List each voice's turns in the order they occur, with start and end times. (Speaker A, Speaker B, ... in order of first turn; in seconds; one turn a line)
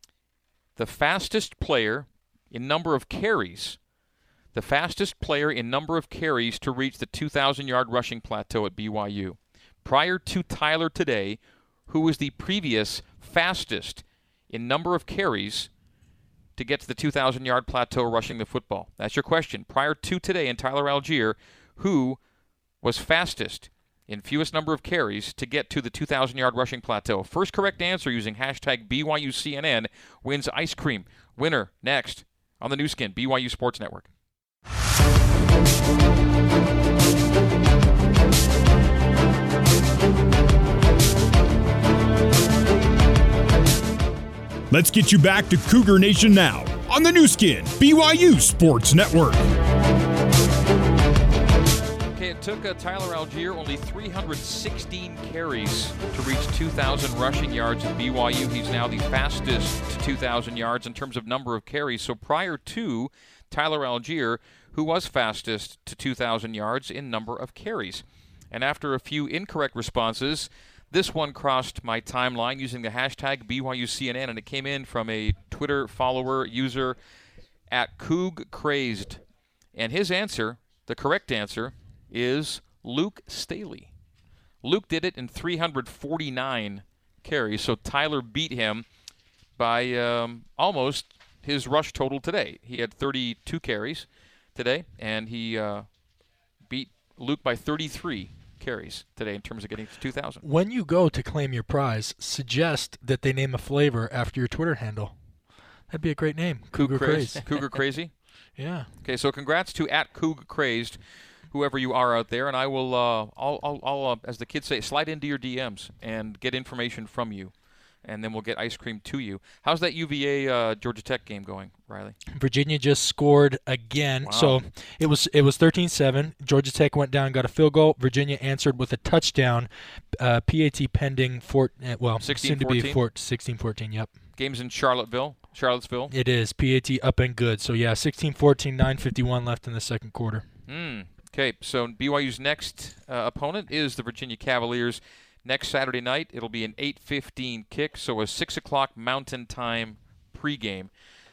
Speaker A: 0.8-3.8
Speaker A: 4.5-15.7
Speaker A: 16.6-22.2
Speaker A: 22.8-34.1
Speaker B: 44.7-49.5
Speaker A: 52.1-77.0
Speaker A: 77.7-79.2
Speaker A: 79.8-83.9
Speaker A: 84.6-88.8
Speaker A: 89.6-95.9
Speaker A: 96.7-100.4
Speaker C: 100.4-105.2
Speaker C: 105.9-107.4
Speaker A: 106.8-108.1
Speaker C: 108.6-108.9
Speaker A: 109.0-111.0
Speaker A: 111.5-117.5
Speaker A: 118.0-122.2
Speaker C: 122.3-134.1
Speaker A: 124.2-124.6
Speaker A: 132.2-133.0
Speaker A: 134.4-136.1
Speaker C: 136.1-140.4
Speaker A: 140.7-150.9